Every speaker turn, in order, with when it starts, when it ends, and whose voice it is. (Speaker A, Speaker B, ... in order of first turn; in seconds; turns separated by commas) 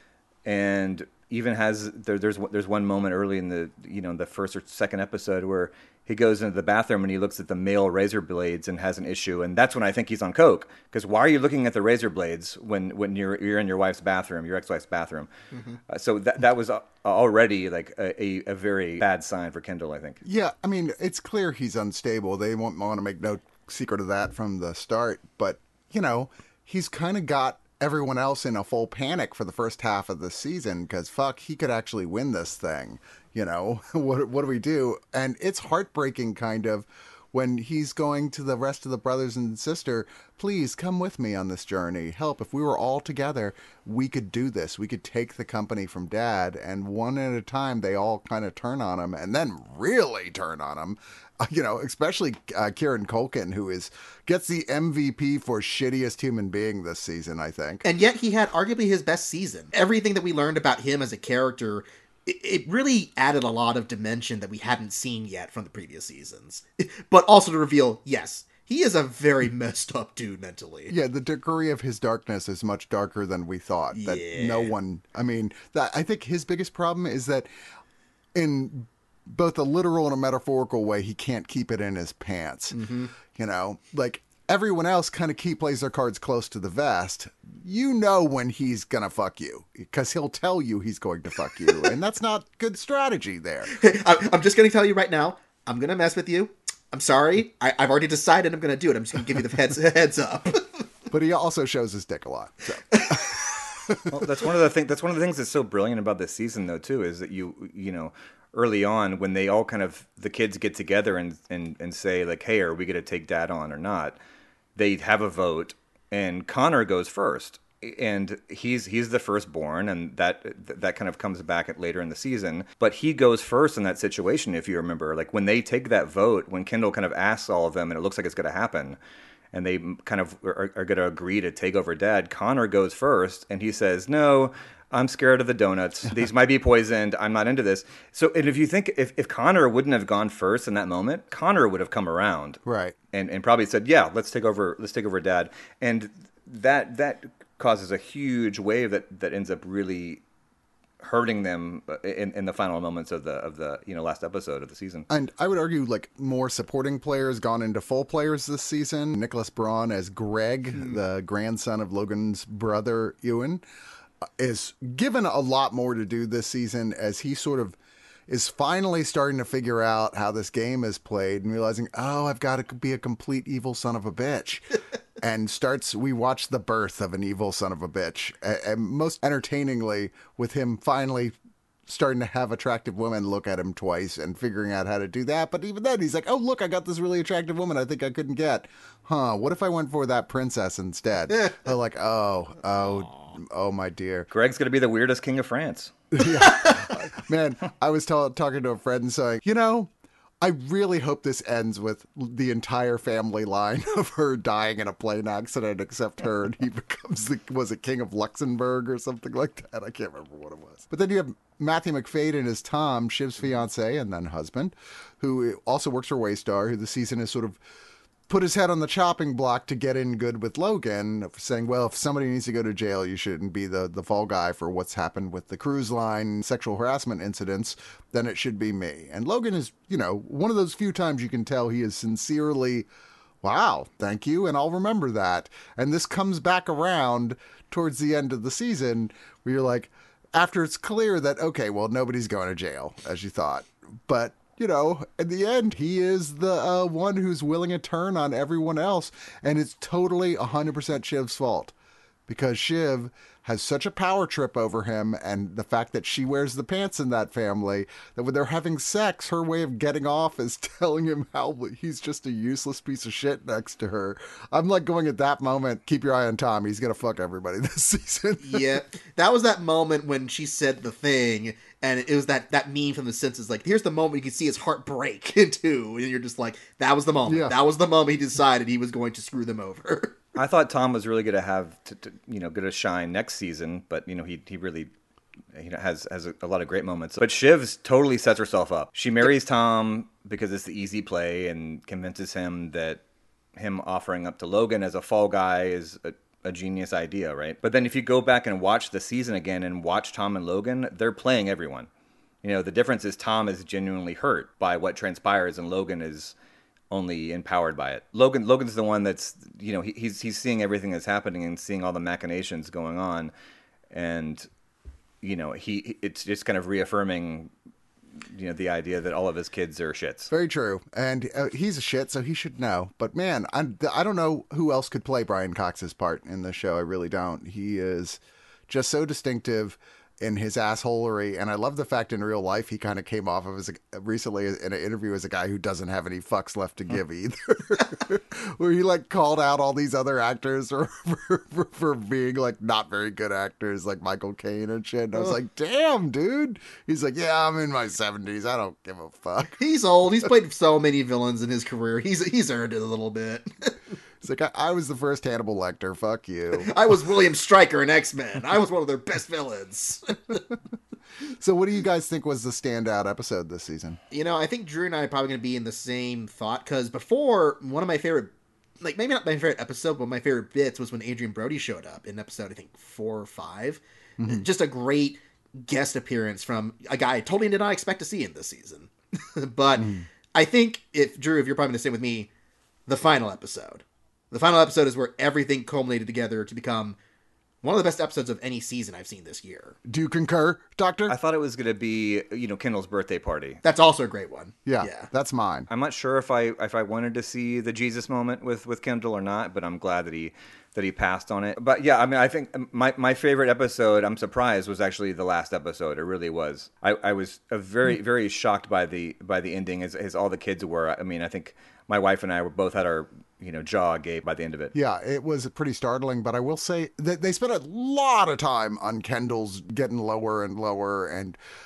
Speaker A: 0.4-15.3, Speaker A: 15.9-20.2, Speaker B: 20.2-57.8, Speaker C: 57.8-70.9, Speaker B: 70.9-77.5, Speaker C: 73.9-74.7, Speaker B: 78.3-82.8, Speaker C: 82.7-83.1, Speaker B: 83.3-93.7, Speaker C: 93.7-100.8, Speaker B: 101.1-104.3, Speaker C: 103.0-103.3, Speaker A: 104.1-114.2, Speaker A: 114.8-129.0, Speaker A: 129.5-142.6, Speaker B: 142.6-143.0, Speaker A: 143.1-150.2, Speaker A: 151.0-155.1, Speaker B: 155.1-163.6, Speaker B: 164.2-167.8, Speaker B: 168.3-174.7, Speaker B: 175.2-181.3, Speaker B: 181.9-194.3, Speaker A: 194.3-195.9, Speaker B: 196.1-199.9, Speaker B: 200.4-217.6, Speaker B: 218.3-232.9, Speaker B: 233.4-251.7, Speaker B: 252.3-268.8, Speaker C: 268.4-280.2, Speaker B: 277.3-277.5, Speaker A: 280.4-284.9, Speaker A: 285.5-293.0, Speaker A: 293.6-301.9, Speaker A: 302.4-306.3, Speaker A: 306.9-313.3, Speaker A: 313.9-314.5, Speaker A: 315.2-317.5, Speaker A: 318.2-320.3, Speaker B: 320.3-349.6, Speaker C: 349.5-353.8, Speaker B: 354.2-356.8, Speaker C: 356.5-360.4, Speaker B: 361.4-364.0, Speaker C: 364.1-382.3, Speaker B: 379.8-380.0, Speaker C: 382.9-387.0, Speaker C: 387.6-389.8, Speaker B: 389.9-391.1, Speaker A: 391.1-393.6, Speaker C: 393.6-395.1, Speaker B: 394.6-395.7, Speaker A: 395.7-414.7, Speaker B: 414.7-421.4